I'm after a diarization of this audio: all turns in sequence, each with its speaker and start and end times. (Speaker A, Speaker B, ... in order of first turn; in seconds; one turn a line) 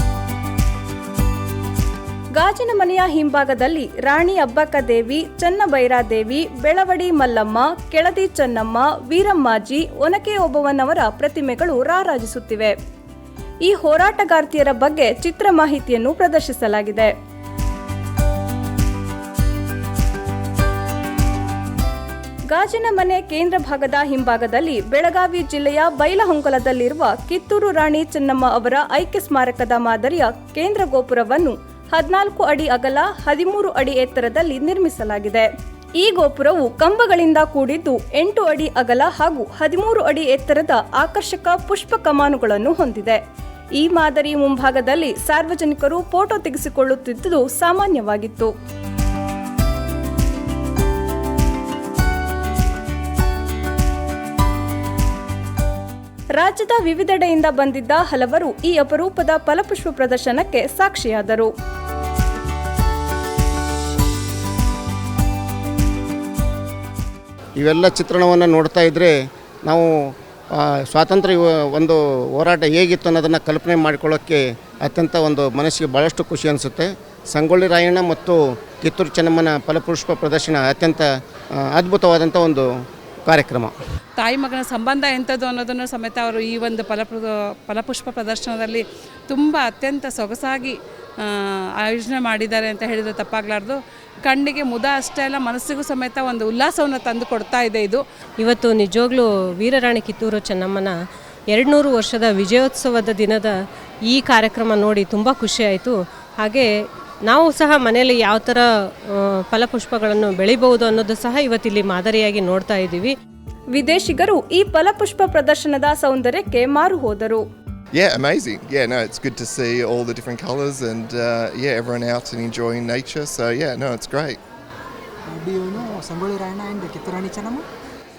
Speaker A: 2.4-12.7
Speaker A: 13.6-17.1
Speaker A: 22.5-35.5
Speaker A: 36.0-43.2
Speaker A: 43.8-48.5
Speaker A: 56.4-61.5
Speaker B: 67.6-69.1
Speaker B: 69.6-69.9
Speaker B: 70.6-82.7
Speaker B: 83.2-83.7
Speaker C: 84.2-98.0
Speaker D: 98.4-100.9
Speaker D: 101.5-103.5
Speaker D: 104.1-106.7
Speaker D: 107.3-108.6
Speaker D: 109.1-113.1
Speaker A: 113.7-117.4
Speaker E: 117.9-124.4
Speaker F: 125.3-127.7